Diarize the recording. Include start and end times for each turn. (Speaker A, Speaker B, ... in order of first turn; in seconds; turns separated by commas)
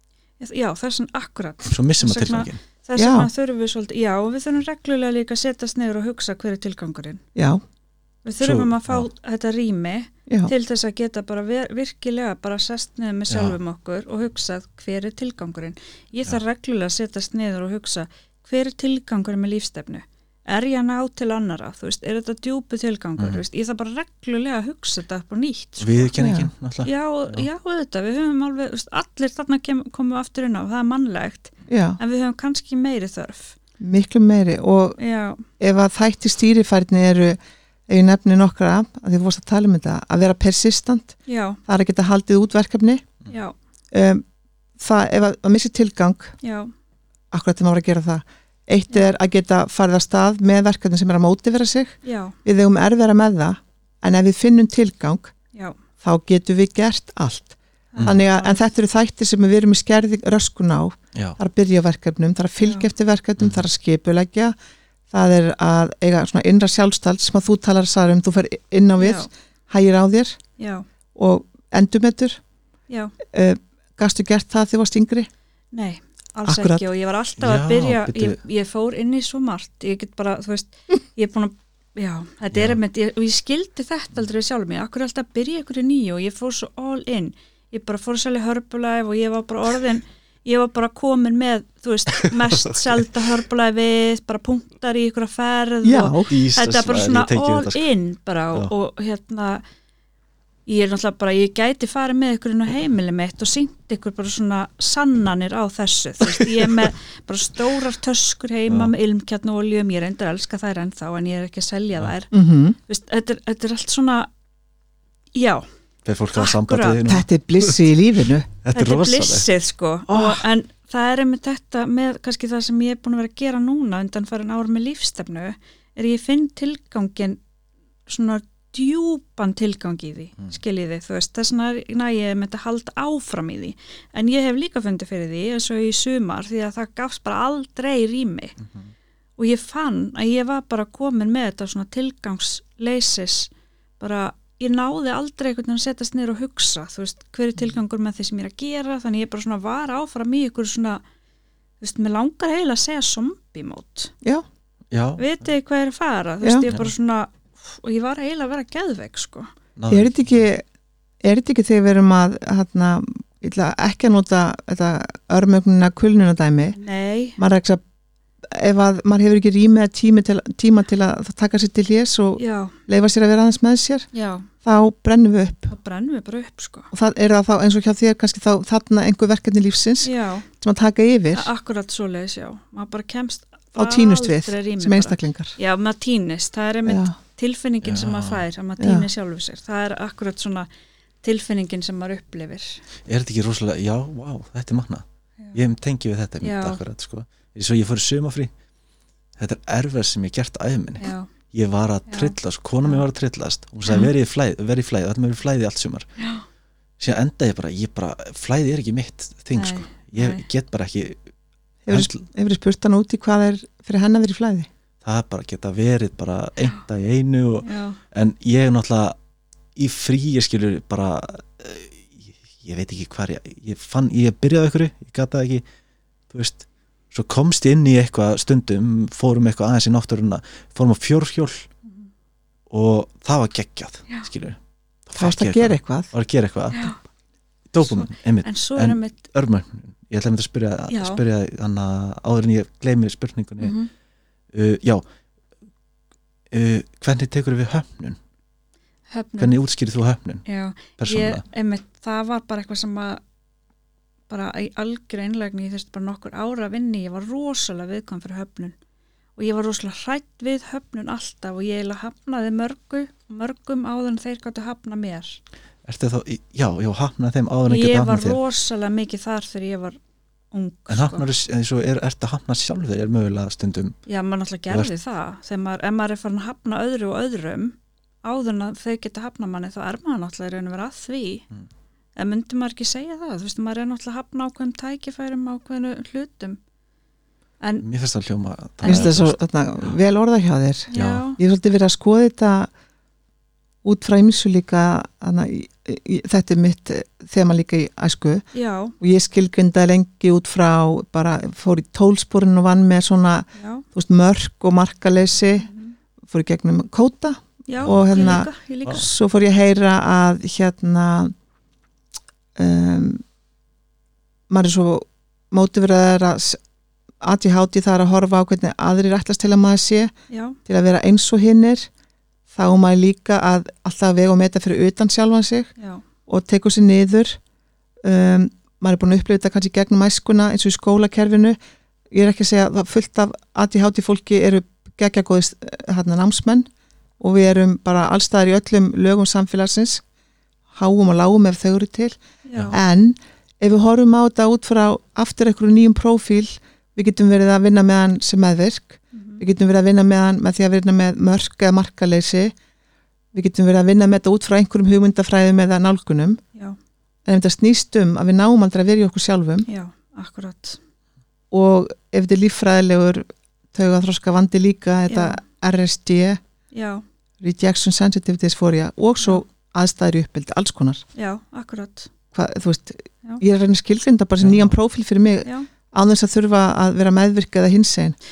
Speaker A: 0.4-7.2, Speaker B: 1.6-2.6, Speaker C: 3.0-3.3, Speaker C: 7.3-7.6, Speaker A: 8.2-26.1, Speaker B: 8.4-9.1, Speaker B: 13.3-13.6, Speaker B: 23.2-23.4, Speaker B: 25.8-27.5, Speaker C: 26.2-26.5, Speaker A: 26.8-33.5, Speaker C: 31.7-32.0, Speaker C: 33.8-35.0, Speaker A: 35.0-35.4, Speaker C: 35.6-41.1, Speaker A: 41.3-41.6, Speaker C: 41.6-43.0, Speaker A: 43.3-43.5, Speaker C: 43.9-44.2, Speaker C: 44.8-46.3, Speaker A: 46.4-46.7, Speaker C: 47.3-55.3, Speaker A: 52.0-52.4, Speaker C: 56.0-64.5, Speaker A: 57.9-58.7, Speaker B: 58.0-58.2, Speaker B: 61.1-61.4, Speaker B: 63.4-63.6, Speaker C: 65.1-70.4, Speaker A: 69.0-69.3, Speaker A: 70.6-70.8, Speaker C: 71.1-72.4, Speaker A: 72.9-73.1, Speaker C: 73.3-75.3, Speaker A: 75.7-99.6, Speaker C: 76.5-76.8, Speaker B: 77.4-78.4, Speaker B: 82.5-82.8, Speaker B: 92.2-93.1, Speaker C: 95.8-96.3, Speaker B: 96.3-97.8, Speaker A: 100.7-112.3, Speaker B: 106.3-106.9, Speaker B: 108.7-108.9, Speaker C: 112.3-112.8, Speaker A: 112.9-114.3, Speaker A: 115.3-115.6, Speaker B: 116.0-117.9, Speaker A: 116.3-117.0, Speaker C: 117.0-118.5, Speaker B: 118.6-119.5, Speaker A: 118.7-127.4, Speaker C: 120.1-120.4, Speaker A: 128.1-138.5, Speaker B: 138.6-138.9, Speaker A: 139.4-151.0, Speaker A: 151.8-154.1, Speaker B: 154.9-155.3, Speaker A: 155.2-159.5, Speaker C: 156.4-156.7, Speaker B: 159.8-160.5, Speaker C: 159.9-160.6, Speaker C: 161.2-166.8, Speaker A: 166.8-167.4, Speaker C: 167.4-167.8, Speaker C: 168.5-174.1, Speaker A: 172.4-172.8, Speaker A: 174.1-174.5, Speaker C: 174.6-175.7, Speaker A: 175.7-176.9, Speaker C: 176.9-181.5, Speaker A: 180.0-180.5, Speaker A: 181.3-190.7, Speaker C: 183.8-185.6, Speaker C: 186.8-187.1, Speaker B: 187.8-188.4, Speaker C: 188.8-189.1, Speaker A: 191.2-192.8, Speaker B: 193.1-198.5, Speaker A: 196.4-196.8, Speaker B: 199.4-206.1, Speaker A: 201.0-201.3, Speaker A: 202.1-203.0, Speaker A: 206.2-206.4, Speaker B: 207.0-211.2, Speaker A: 209.5-210.4, Speaker C: 211.8-214.7, Speaker B: 211.9-212.2, Speaker B: 215.0-219.2, Speaker A: 217.6-218.0, Speaker B: 219.8-225.6, Speaker B: 226.3-231.7, Speaker B: 232.7-236.9, Speaker C: 235.2-236.1, Speaker A: 236.7-237.0, Speaker B: 237.7-243.8, Speaker A: 237.8-239.2, Speaker A: 240.9-241.2, Speaker A: 243.6-243.9, Speaker B: 244.5-245.0, Speaker B: 246.5-248.2, Speaker A: 249.1-249.5, Speaker B: 249.4-250.4, Speaker A: 250.4-253.2, Speaker B: 251.0-251.4, Speaker A: 254.3-258.8, Speaker A: 259.4-265.4, Speaker B: 265.8-268.4, Speaker A: 267.7-270.0, Speaker A: 270.5-271.2, Speaker B: 270.9-274.0, Speaker A: 274.1-281.4, Speaker A: 282.1-286.6, Speaker B: 287.8-289.9, Speaker A: 288.8-289.2, Speaker C: 288.9-292.7, Speaker A: 290.9-291.4, Speaker B: 290.9-291.3, Speaker C: 293.8-298.5, Speaker A: 298.5-298.9, Speaker C: 299.0-305.7, Speaker A: 303.5-303.8, Speaker A: 305.6-305.9, Speaker C: 306.3-311.3, Speaker A: 307.7-309.1, Speaker B: 307.8-309.1, Speaker C: 312.6-313.2, Speaker C: 314.5-316.6, Speaker C: 317.2-320.1, Speaker A: 320.3-320.6, Speaker C: 320.6-321.9, Speaker C: 322.5-325.7, Speaker A: 325.8-326.0, Speaker C: 326.3-327.4, Speaker C: 328.0-331.6, Speaker C: 332.1-336.7, Speaker C: 337.2-340.0, Speaker C: 340.7-342.2, Speaker A: 342.4-342.8, Speaker C: 342.7-352.5, Speaker A: 349.1-349.4, Speaker C: 353.3-356.4, Speaker C: 357.2-359.7, Speaker A: 359.6-360.8, Speaker C: 361.5-366.4, Speaker A: 365.1-365.4, Speaker A: 366.7-367.0, Speaker C: 367.4-371.0, Speaker A: 371.1-372.1, Speaker C: 372.3-378.2, Speaker B: 374.4-374.8